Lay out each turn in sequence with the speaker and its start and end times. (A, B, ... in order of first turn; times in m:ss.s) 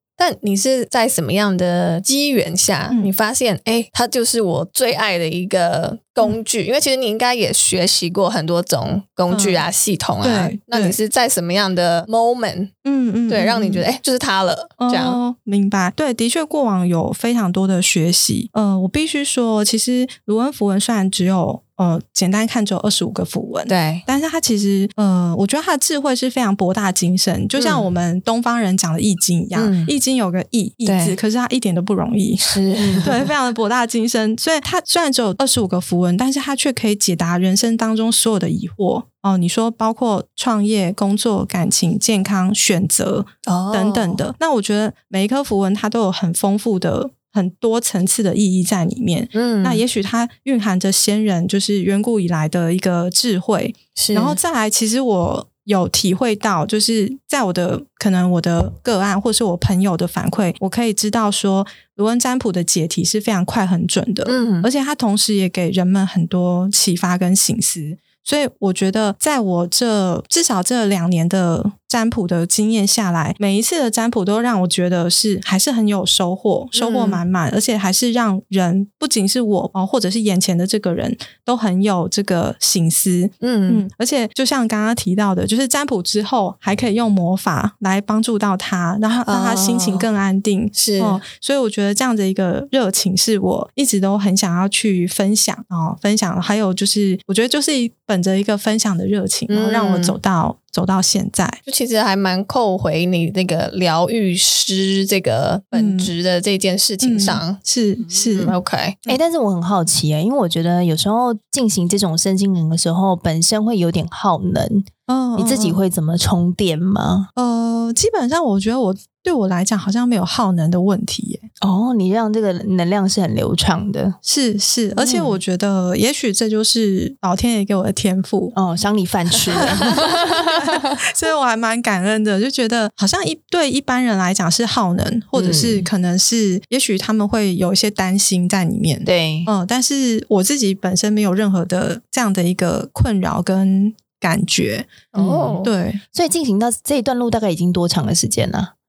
0:00.2-0:12.7 A
0:09.3-0:09.6 B
0:10.2-0:11.0 B
0:12.8-0:13.8 B
0:13.3-0:15.2 A
0:14.8-1:41.6 B
0:23.7-0:24.0 A
0:27.6-0:27.9 A
0:29.5-0:29.9 A
0:30.8-0:31.2 A
0:32.4-0:33.3 A
0:32.8-0:33.1 C
0:43.4-0:44.2 A
0:49.3-0:49.8 A
0:54.0-0:54.4 A
1:04.2-1:04.7 A
1:16.7-1:17.2 A
1:23.4-1:23.8 A
1:29.2-1:30.0 A
1:30.7-1:31.2 A
1:39.5-1:40.2 A
1:41.6-1:47.6 A
1:45.7-1:46.1 B
1:47.0-1:49.2 B
1:48.3-1:49.0 A
1:49.0-1:57.3 C
1:55.1-1:55.8 B
1:57.4-2:01.5 B
2:01.6-2:04.2 C
2:04.2-2:08.5 B
2:04.9-2:05.4 C
2:08.5-2:10.9 C
2:09.5-2:24.9 B
2:15.3-2:15.9 C
2:19.0-2:19.5 C
2:25.1-2:25.7 A
2:25.2-2:25.6 C
2:25.6-2:26.0 B
2:26.1-2:28.7 C